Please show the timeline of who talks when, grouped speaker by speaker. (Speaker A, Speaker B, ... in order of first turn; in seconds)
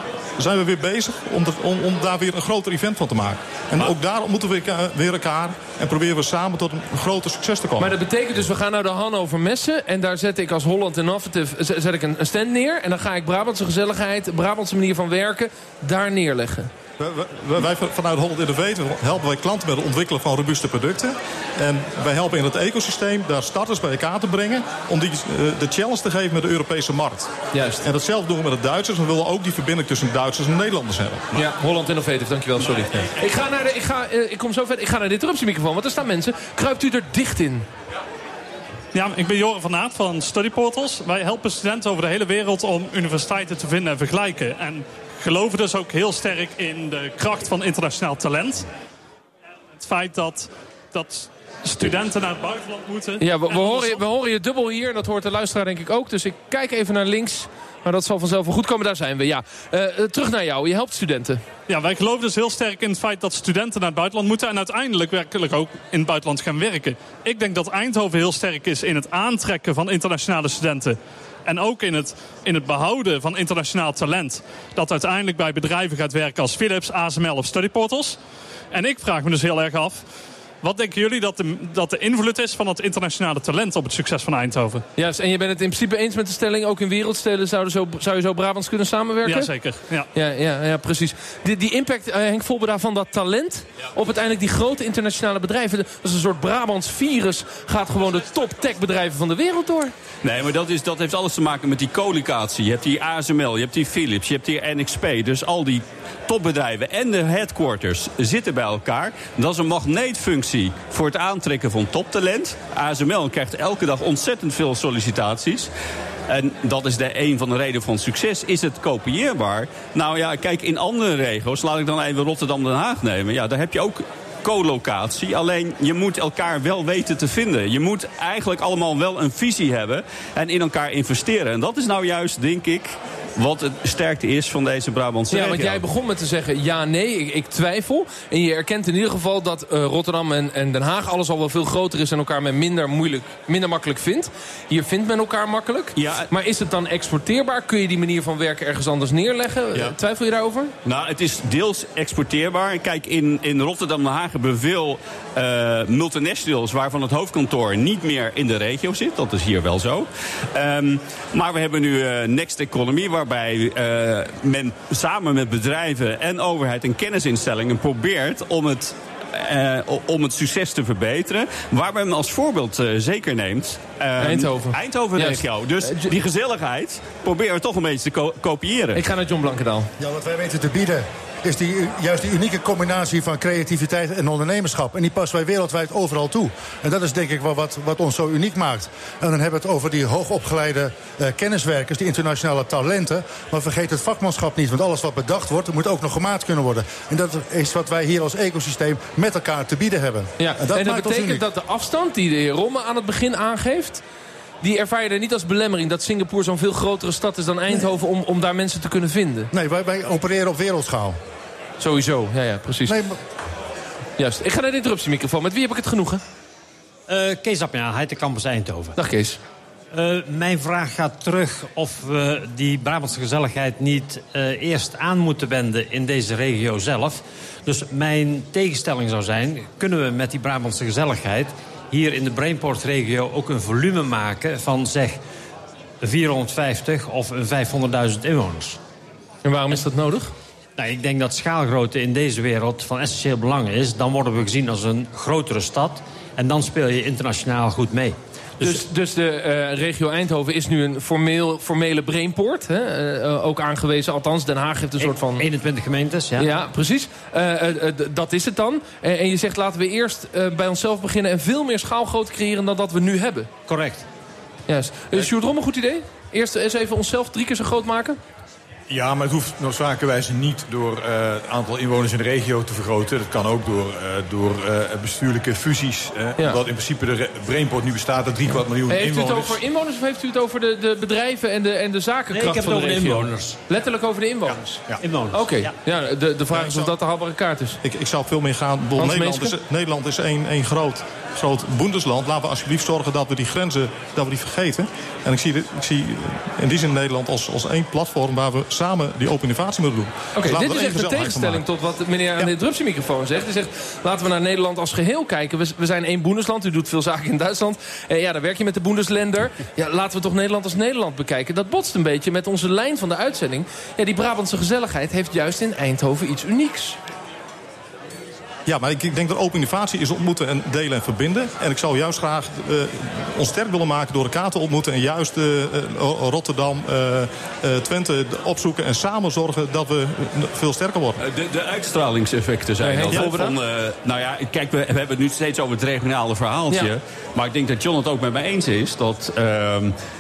Speaker A: 0.4-8.0, 17.0-31.2, 286.5-286.9, 287.8-301.6, 318.7-331.2
Speaker B: 7.8-16.7, 27.5-27.8, 31.3-37.7, 53.2-61.4, 85.0-89.5, 90.1-99.9, 135.3-150.7, 174.2-176.1, 178.9-179.9, 200.4-204.0, 204.6-209.5, 211.8-213.0, 214.2-216.2, 219.0-219.4, 239.4-240.3, 248.6-255.4, 256.4-263.5, 264.7-268.2, 278.9-287.8, 289.0-289.6, 300.4-317.0, 332.8-333.6
Speaker C: 38.9-48.7, 49.8-54.0, 61.7-78.2, 78.7-80.0, 80.6-84.8, 89.2-90.1
Speaker D: 100.2-115.7, 116.3-135.8, 146.0-146.3, 150.8-179.0, 331.2-339.9
Speaker E: 180.0-201.5, 209.5-211.2, 212.9-213.2
Speaker F: 217.1-218.9, 219.9-235.2, 236.0-238.8, 240.8-248.8, 255.0-256.5, 263.7-264.1, 282.3-283.6, 285.0-285.7
Speaker G: 268.9-279.6